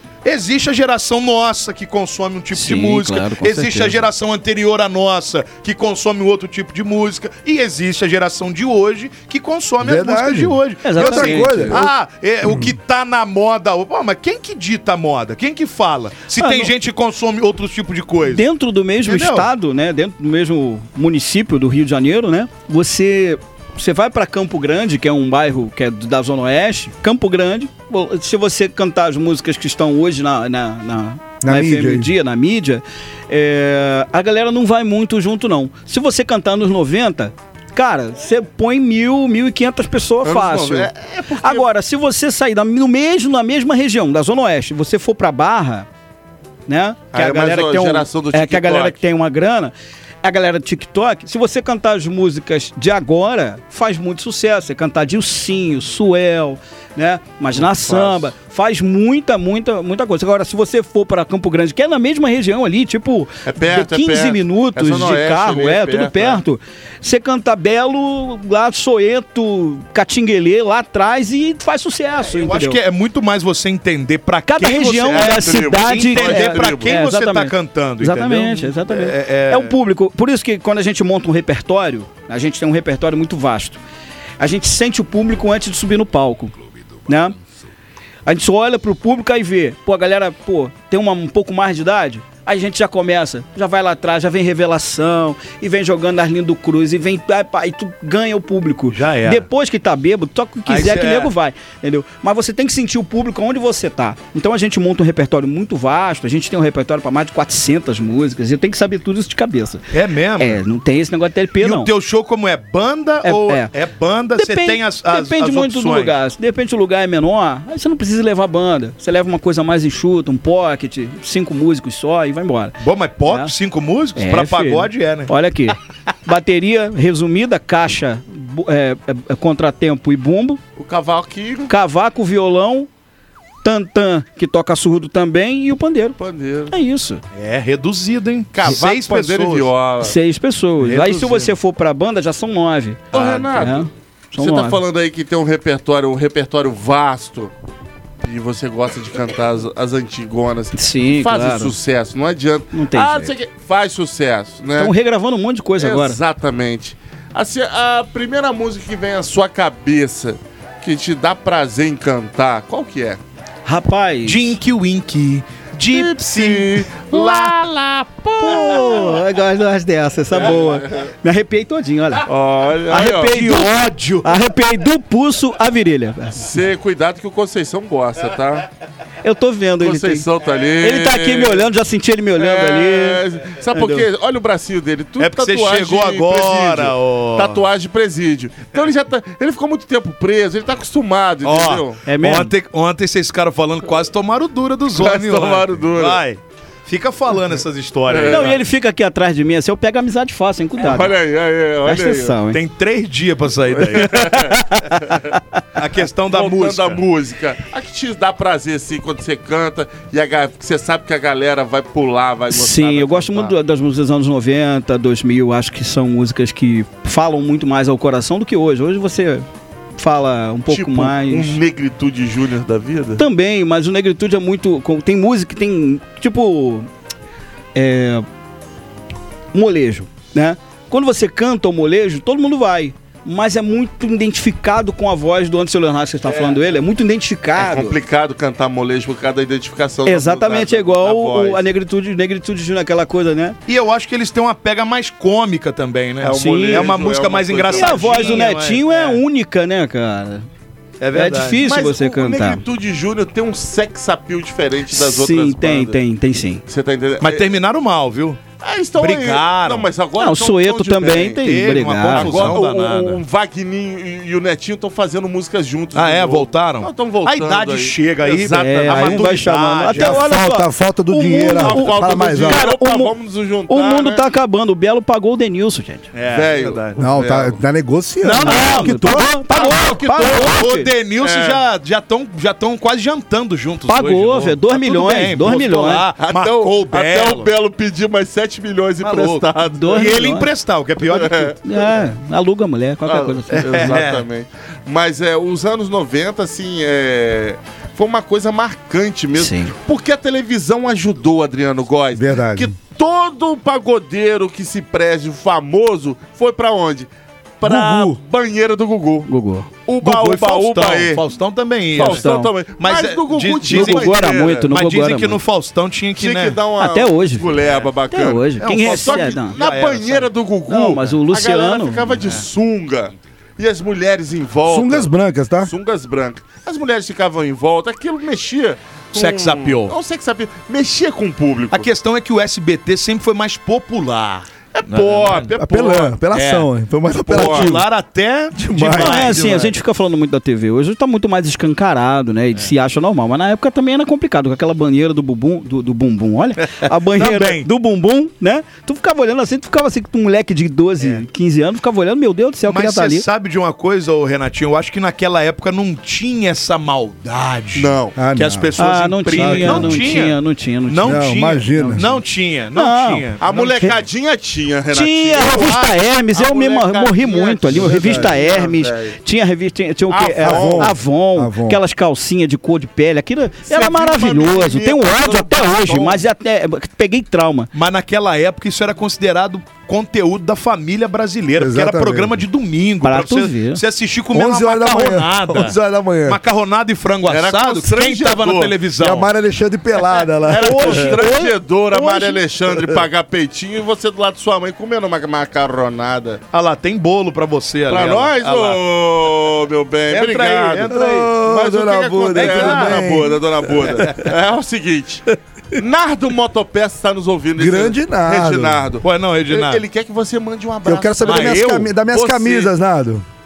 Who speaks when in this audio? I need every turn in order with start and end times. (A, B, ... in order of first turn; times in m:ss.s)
0:00.2-0:18.4 A
0:02.5-0:04.0 B
0:09.8-0:11.9 C
0:10.8-0:11.8 B
0:12.4-0:12.7 C
0:16.4-0:16.7 B
0:18.3-0:45.9 B
0:19.0-0:19.5 A
0:31.4-0:32.1 C
0:40.2-0:41.6 D
0:46.7-1:12.8 B
0:47.1-0:49.0 D
0:57.6-0:58.2 D
1:03.4-1:06.4 D
1:12.3-1:19.8 A
1:14.5-1:23.8 B
1:15.1-1:17.0 D
1:24.4-1:26.5 B
1:27.0-1:27.4 B
1:28.2-1:49.8 B
1:38.9-1:39.4 A
1:40.6-1:41.3 A
1:49.9-1:50.6 A
1:50.4-1:51.9 B
1:51.6-1:56.1 A
1:53.2-1:53.7 B
1:54.4-2:03.5 B
2:02.8-2:05.3 A
2:04.2-2:10.6 B
2:10.8-2:11.7 D
2:11.7-2:12.9 B
2:13.6-2:16.2 B
2:16.2-2:16.8 D
2:16.7-2:17.2 B
2:17.4-2:19.7 A
2:18.5-2:20.1 D
2:20.0-2:24.8 B
2:20.8-2:21.5 A
2:23.1-2:27.5 D
2:23.1-2:23.4 A
2:28.2-2:34.9 D
2:30.7-2:31.8 B
2:32.7-2:33.3 B
2:34.8-2:36.2 B
2:35.8-2:43.2 D
2:43.6-2:44.6 B
2:44.2-2:47.5 A
2:45.9-2:49.2 D
2:48.4-2:52.2 B
2:50.4-2:51.0 D
2:52.3-2:53.5 D
2:52.9-2:54.4 A
2:52.9-2:56.5 B
2:56.3-2:58.6 D
2:59.2-3:00.2 B
2:59.8-3:01.6 D
3:00.8-3:04.0 B
3:02.4-3:12.0 D
3:05.2-3:07.6 A
3:11.4-3:18.6 A
3:12.0-3:12.5 B
3:14.9-3:16.2 D
3:18.1-3:18.6 D
3:18.2-3:21.2 B
3:20.8-3:22.4 D
3:21.8-3:22.6 B
3:22.5-3:24.6 A
3:23.7-3:25.2 D
3:24.3-3:25.4 B
3:25.8-3:27.0 A
3:26.3-3:33.5 D
3:32.5-3:39.4 B
3:40.0-3:41.6 B
3:40.7-3:43.2 D
3:43.2-3:46.9 B
3:47.8-3:48.2 B
3:49.5-3:58.0 B
3:57.6-4:01.6 D
4:00.0-4:03.6 B
4:03.6-4:09.2 A
4:06.2-4:08.5 D
4:06.3-4:07.0 B
4:07.7-4:10.5 B
4:11.0-4:11.6 A
4:11.1-4:12.6 B
4:11.6-4:16.0 D
4:14.9-4:16.6 B
4:16.7-4:17.5 D
4:17.2-4:18.4 A
4:18.6-4:21.4 D
4:19.0-4:19.9 A
4:20.2-4:22.6 B
4:21.4-4:23.2 A
4:22.1-4:29.7 D
4:25.9-4:30.3 A
4:28.6-4:33.1 B
4:29.9-4:32.6 C
4:31.4-4:34.2 D
4:33.7-4:36.1 B
4:36.1-4:37.0 A
4:36.3-4:37.6 D
4:37.0-4:39.3 C
4:38.2-4:40.9 B
4:38.2-4:47.5 A
4:39.6-4:40.4 D
4:41.2-4:41.6 D
4:43.9-4:46.0 B
4:46.2-4:50.4 D
4:49.0-4:51.6 A
4:49.7-4:50.5 B
4:51.0-4:51.6 D
4:51.6-4:53.9 B
4:53.0-5:07.1 D
4:53.5-4:54.2 A
4:59.4-4:59.7 B
5:02.1-5:02.7 C
5:07.6-5:09.3 D
5:07.6-5:08.2 C
5:09.3-5:09.7 B
5:09.9-5:11.2 D
5:10.0-5:16.6 A
5:11.9-5:14.7 D
5:12.0-5:12.5 B
5:13.7-5:15.4 B
5:16.2-5:25.1 D
5:16.8-5:19.6 B
5:18.6-5:20.3 A
5:20.7-5:22.0 B
5:22.2-5:22.4 A
5:24.7-5:25.7 C
5:25.6-5:31.9 D
5:29.1-5:29.9 A
5:31.7-5:35.5 A
5:34.8-5:36.1 D
5:35.6-5:37.9 C
5:36.3-5:36.7 A
5:37.2-5:39.8 A
5:37.3-5:37.8 D
5:38.5-5:39.4 C
5:38.9-5:53.2 B
5:46.8-5:47.7 A
5:52.6-6:04.0 A
5:57.7-5:58.1 D
5:58.2-5:58.8 C
5:58.8-6:02.2 B
5:59.4-6:00.1 C
6:01.0-6:02.0 C
6:02.7-6:03.9 B
6:03.4-6:09.2 D
6:04.9-6:17.7 B
6:07.8-6:08.3 C
6:10.1-6:11.0 D
6:10.4-6:11.8 C
6:13.7-6:16.2 D
6:17.7-6:29.3 A
6:21.6-6:22.4 C
6:23.0-6:23.8 B
6:24.3-6:26.4 C
6:27.3-6:28.8 D
6:29.0-6:31.2 C
6:30.4-6:36.4 D
6:30.6-6:32.4 A
6:36.5-6:38.8 A
6:37.9-6:51.7 D
6:40.1-6:41.3 A
6:40.9-6:44.1 C
6:42.4-6:43.3 A
6:47.6-6:48.9 C
6:49.0-6:49.8 A
6:50.8-6:53.2 C
6:51.2-6:52.7 A